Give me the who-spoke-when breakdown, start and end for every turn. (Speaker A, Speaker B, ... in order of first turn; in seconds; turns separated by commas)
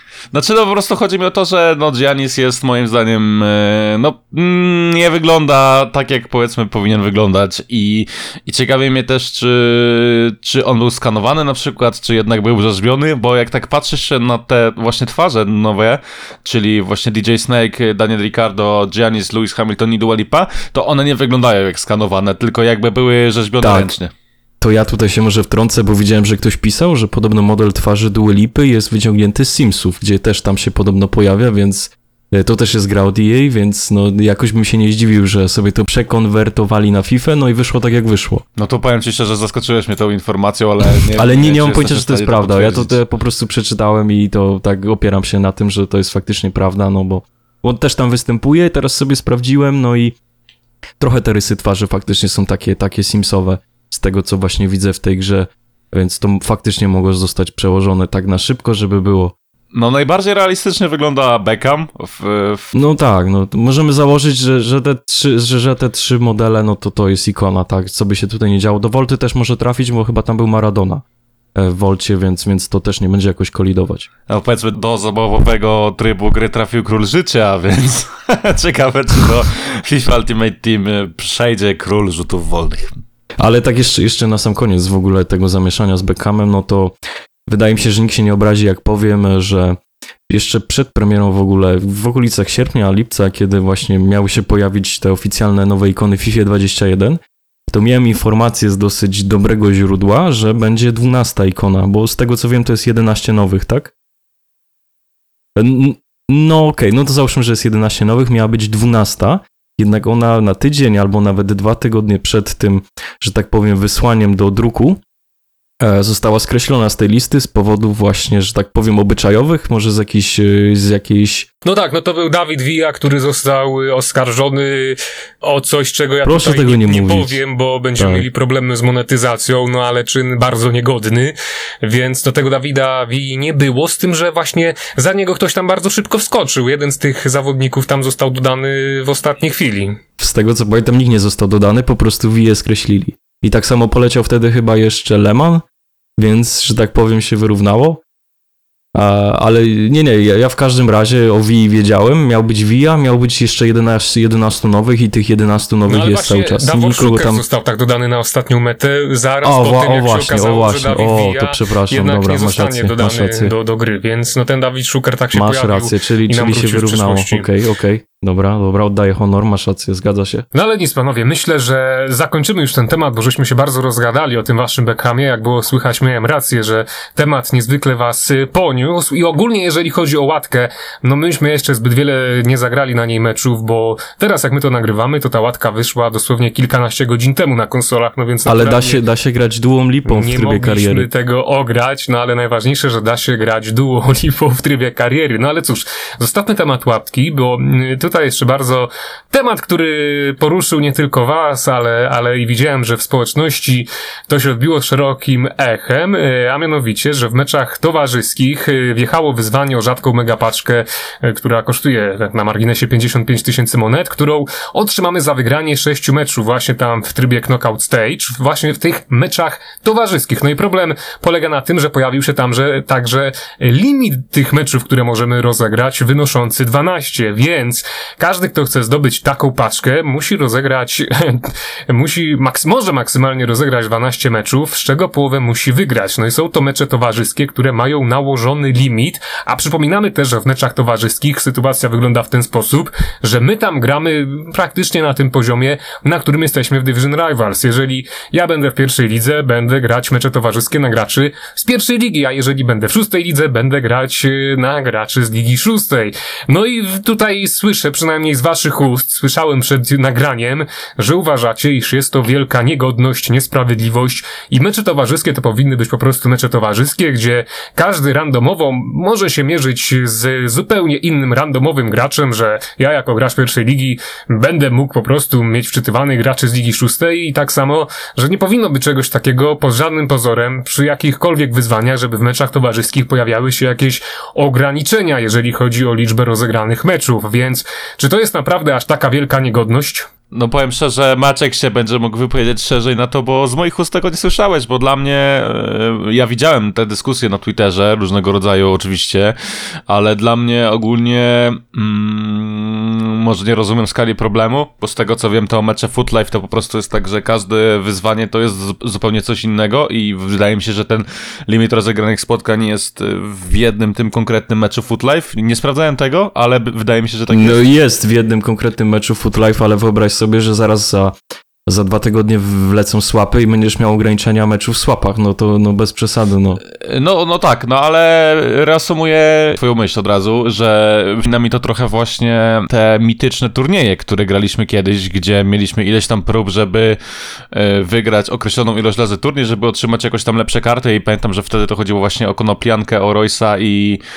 Speaker A: 0.3-24.1, Speaker B: 23.6-23.9, Speaker B: 24.6-38.4, Speaker A: 38.6-43.0, Speaker B: 41.2-50.2, Speaker B: 51.0-59.3, Speaker A: 59.7-62.7, Speaker B: 62.7-71.0, Speaker B: 71.5-74.1, Speaker A: 74.3-83.0, Speaker B: 83.4-87.0, Speaker B: 87.5-103.9, Speaker B: 105.6-115.0, Speaker B: 115.8-121.5, Speaker C: 121.7-140.0, Speaker B: 126.2-127.4, Speaker B: 128.0-128.3, Speaker B: 140.2-145.7, Speaker B: 146.2-148.0, Speaker B: 148.9-157.4, Speaker C: 155.9-167.5, Speaker B: 159.4-163.5, Speaker B: 165.3-170.5, Speaker C: 170.5-189.0, Speaker B: 188.5-191.1, Speaker C: 190.1-290.1, Speaker A: 290.3-299.4, Speaker A: 299.9-317.6, Speaker B: 317.3-321.2, Speaker B: 321.7-326.6, Speaker A: 326.7-337.0, Speaker A: 337.5-344.0